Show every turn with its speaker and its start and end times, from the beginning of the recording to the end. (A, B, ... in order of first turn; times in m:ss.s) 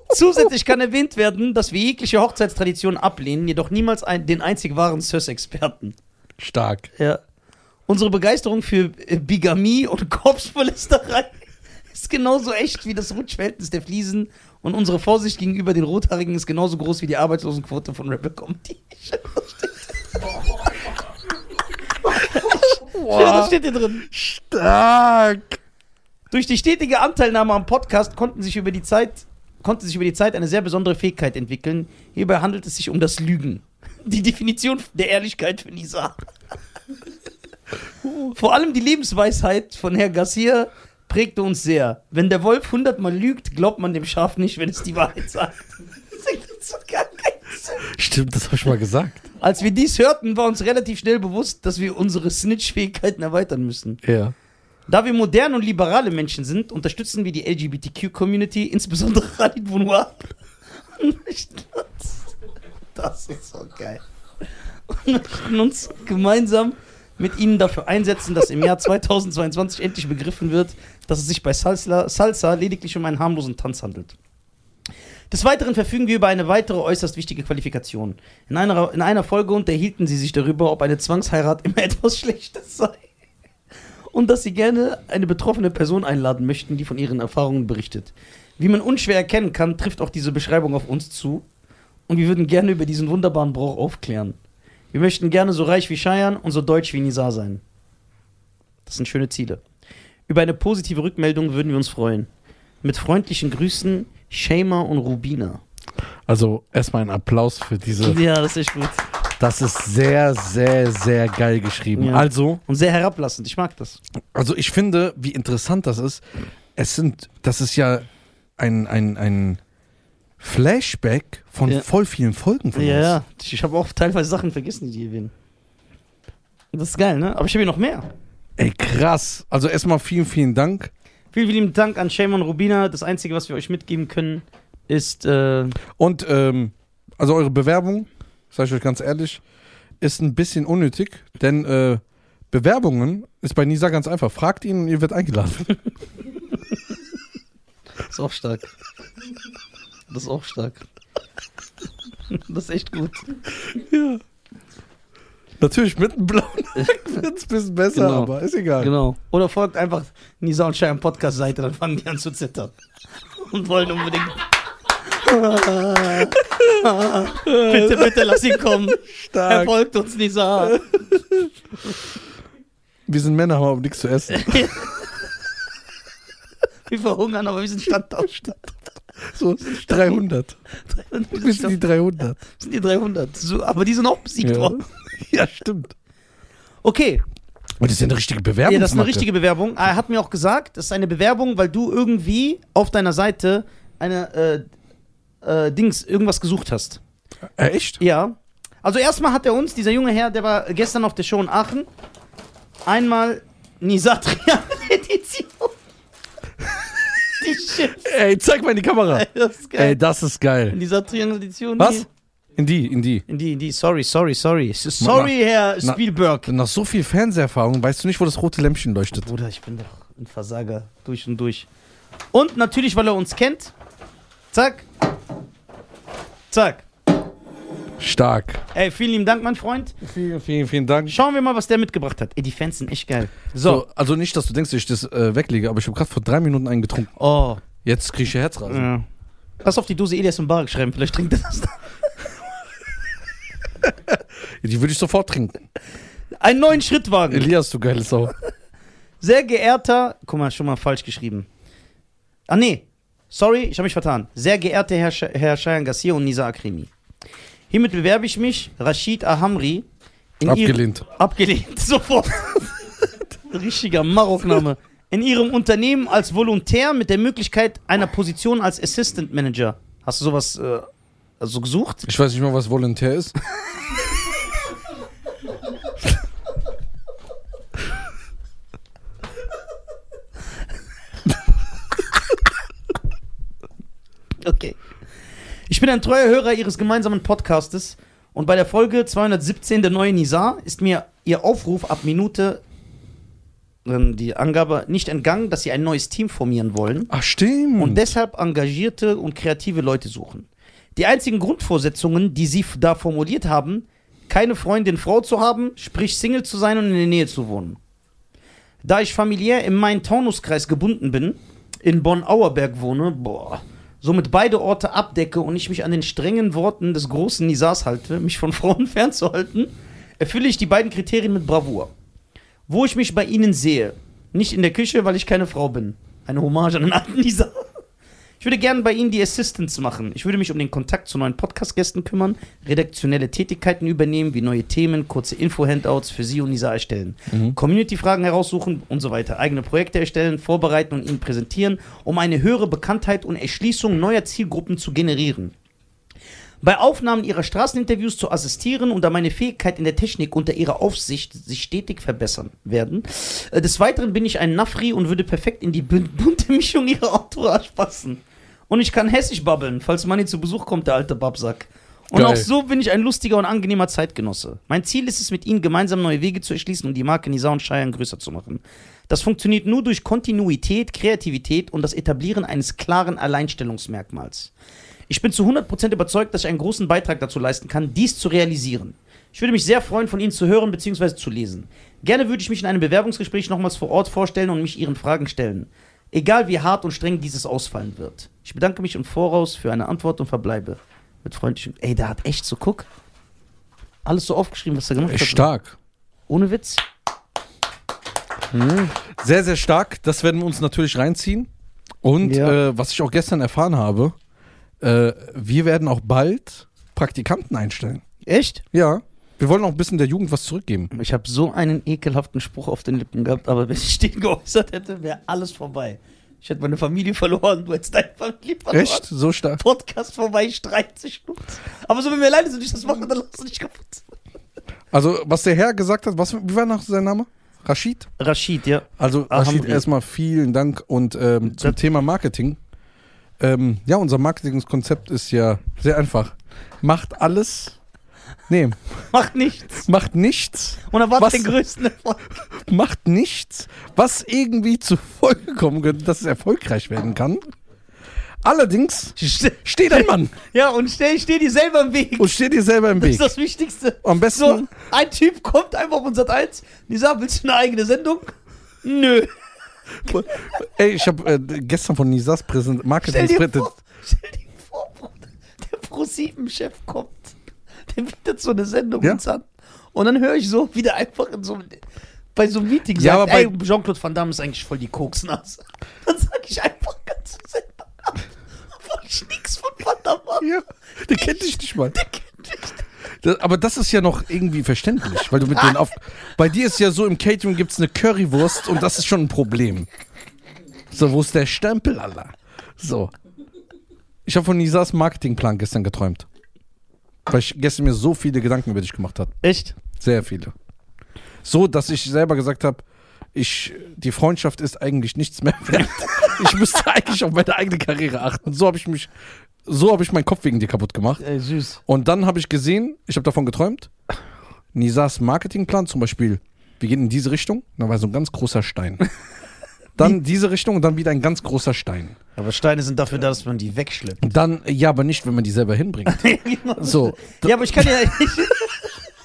0:00.1-0:06.0 A
0:06.4-0:06.9 B
0:07.0-0:07.2 A
0:07.9-0:19.9 A
0:22.1-0:24.0 A
0:22.2-0:25.6 B
0:26.3-0:36.2 A
0:38.2-0:47.8 A
0:47.8-0:49.2 B
0:49.4-0:54.0 A
0:54.0-0:54.3 B
0:54.9-1:00.3 A
1:00.9-1:02.3 A
1:02.9-1:04.0 A
1:04.9-1:14.2 A
1:15.3-1:23.0 A
1:24.1-1:31.4 A
1:32.1-1:34.4 A
1:34.9-1:37.6 A
1:38.8-1:39.6 A
1:40.3-1:42.3 A
1:42.8-1:45.6 A
1:46.3-1:48.2 B
1:48.0-1:49.1 A
1:49.4-1:52.6 B
1:52.0-1:54.0 A
1:54.3-1:56.2 B
1:56.8-1:58.1 B
1:58.6-1:59.6 B
2:00.4-2:03.2 B
2:02.7-2:05.3 A
2:06.7-2:08.1 A
2:08.6-2:10.9 B
2:11.3-2:15.8 A
2:15.9-2:19.4 B
2:20.0-2:25.8 B
2:28.1-2:28.7 A
2:30.1-2:30.8 A
2:32.3-2:33.3 A
2:33.7-2:34.2 B
2:35.6-2:38.9 B
2:36.8-2:37.2 A
2:37.9-2:42.8 A
2:43.4-2:44.4 A
2:45.0-2:50.8 A
2:47.4-2:49.7 B
2:50.6-2:51.5 B
2:53.1-2:54.7 B
2:54.3-2:55.0 A
2:56.9-2:58.8 A
2:59.3-3:00.6 B
2:59.6-3:00.2 A
3:00.8-3:01.8 A
3:01.3-3:02.4 B
3:02.4-3:04.8 A
3:04.4-3:05.9 B
3:06.8-3:07.2 A
3:07.8-3:09.3 B
3:08.6-3:14.6 A
3:15.4-3:17.0 A
3:17.6-3:18.0 B
3:18.0-3:21.9 A
3:22.8-3:25.7 A
3:27.4-3:28.1 A
3:27.9-3:30.8 B
3:29.1-3:30.0 A
3:30.7-3:32.1 A
3:31.8-3:33.2 B
3:33.3-3:36.5 A
3:35.0-3:39.3 B
3:39.2-3:41.7 A
3:42.3-3:43.7 A
3:44.5-3:44.8 A
3:46.5-3:46.8 A
3:48.0-3:48.6 B
3:48.7-3:50.0 A
3:50.0-3:51.2 B
3:51.1-3:53.8 A
3:53.6-3:57.1 B
3:57.2-3:57.6 A
3:57.8-3:58.9 B
3:58.7-3:59.0 A
3:59.6-4:01.9 A
4:04.1-4:05.6 B
4:06.4-4:07.5 A
4:07.3-4:08.3 B
4:09.2-4:11.5 A
4:12.5-4:16.9 A
4:17.7-4:19.9 A
4:20.4-4:30.8 A
4:20.4-4:21.0 B
4:31.4-4:32.0 A
4:32.0-4:33.3 B
4:44.4-4:44.8 A
4:45.7-4:52.6 A
4:53.8-4:57.1 A
4:57.1-4:58.0 B
4:57.8-5:07.8 A
5:08.8-5:21.9 A
5:22.7-5:27.7 A
5:28.4-5:45.5 A
5:37.3-5:37.6 B
5:46.6-6:14.5 A
6:02.1-6:02.5 B
6:15.1-6:32.8 A
6:34.0-6:35.5 A
6:35.0-6:35.8 B
6:36.3-6:36.8 A
6:38.5-6:38.9 A
6:39.1-6:41.5 B
6:42.0-6:44.1 B
6:42.2-6:42.6 A
6:44.8-6:48.0 B
6:48.2-6:48.6 A
6:48.7-6:50.9 B
6:50.9-6:59.0 A
6:58.7-6:59.6 B
6:59.6-7:04.0 A
7:04.9-7:08.1 B
7:08.2-7:09.8 A
7:09.0-7:12.6 B
7:13.4-7:17.8 B
7:18.5-7:19.0 B
7:19.1-7:19.9 A
7:19.8-7:21.6 B
7:20.9-7:22.3 A
7:22.4-7:27.4 B
7:28.4-7:30.4 B
7:29.2-7:32.3 A
7:32.2-7:33.3 B
7:32.9-7:39.3 A
7:34.0-7:34.7 B
7:40.0-7:43.7 B
7:43.0-7:47.3 A
7:47.9-7:51.8 A
7:52.3-7:58.2 A
7:52.9-7:53.5 B
7:58.7-8:00.5 A
8:00.4-8:02.0 B
8:01.9-8:02.8 A
8:03.2-8:09.9 B
8:10.9-8:13.1 B
8:14.2-8:16.2 B
8:17.3-8:19.3 B
8:19.4-8:19.8 A
8:19.9-8:20.5 B
8:21.4-8:22.8 B
8:23.3-8:29.1 B
8:29.6-8:31.2 B
8:31.2-8:31.8 A
8:31.9-8:33.9 B
8:34.7-8:39.0 B
8:40.0-8:42.2 B
8:42.4-8:44.3 A
8:44.2-8:48.0 B
8:46.1-8:48.8 A